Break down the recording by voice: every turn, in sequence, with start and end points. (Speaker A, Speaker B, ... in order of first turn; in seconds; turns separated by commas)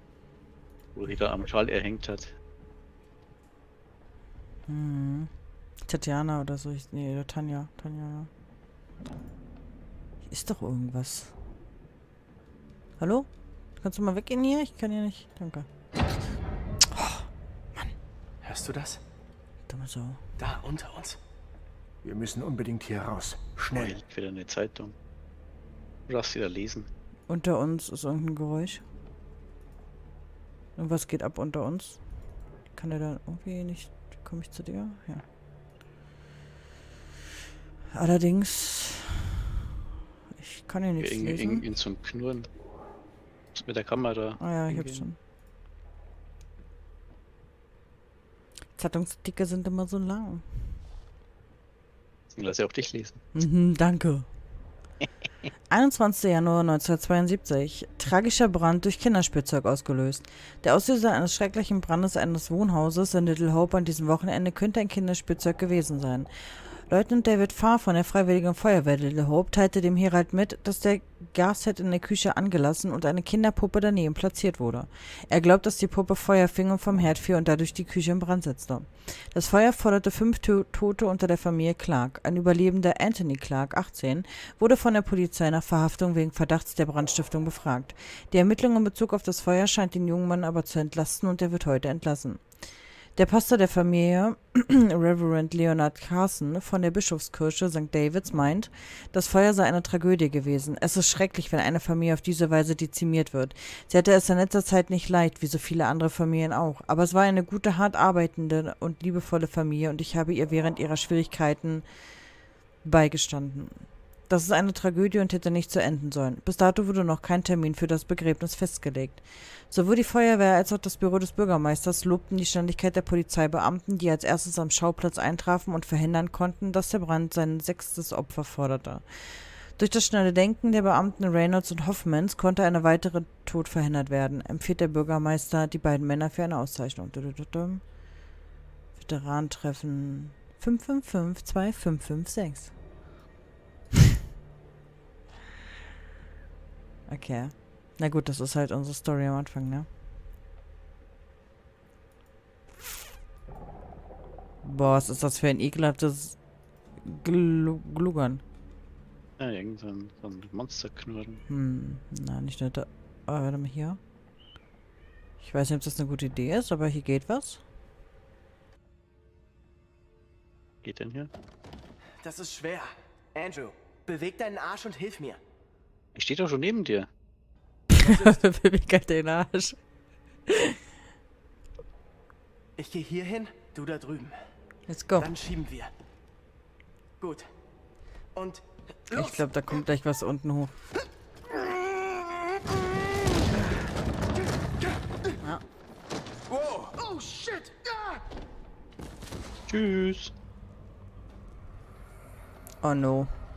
Speaker A: 0.9-2.3, Speaker B: 4.7-5.3, Speaker B: 5.8-8.3, Speaker B: 10.2-11.3, Speaker B: 13.0-13.3, Speaker B: 13.8-15.7, Speaker B: 16.9-17.9, Speaker C: 18.5-18.9, Speaker B: 19.7-20.2, Speaker C: 20.4-21.1, Speaker D: 22.0-23.9, Speaker A: 23.7-24.9, Speaker A: 26.1-26.9, Speaker B: 27.3-28.8, Speaker B: 30.8-32.0, Speaker B: 32.7-35.2, Speaker B: 37.9-39.4, Speaker B: 40.3-41.6, Speaker A: 41.0-42.5, Speaker A: 43.5-45.0, Speaker B: 44.4-45.2, Speaker B: 48.8-50.5, Speaker A: 52.3-53.2, Speaker B: 53.3-54.2, Speaker B: 55.7-66.3, Speaker B: 66.9-92.4, Speaker B: 93.2-111.8, Speaker B: 112.8-137.8, Speaker B: 138.9-142.7, Speaker B: 147.1-149.9, Speaker B: 154.6-156.4, Speaker B: 157.0-158.4, Speaker A: 159.4-161.4, Speaker B: 161.5-164.0, Speaker B: 165.4-167.6, Speaker A: 170.8-171.3, Speaker C: 172.2-172.8, Speaker C: 173.4-175.4, Speaker A: 176.1-177.1, Speaker B: 177.9-179.8, Speaker B: 180.5-180.8, Speaker C: 182.8-184.3, Speaker B: 184.9-185.3, Speaker C: 185.3-185.9, Speaker B: 189.1-190.7, Speaker D: 196.5-197.1, Speaker A: 199.7-200.3, Speaker B: 202.8-203.3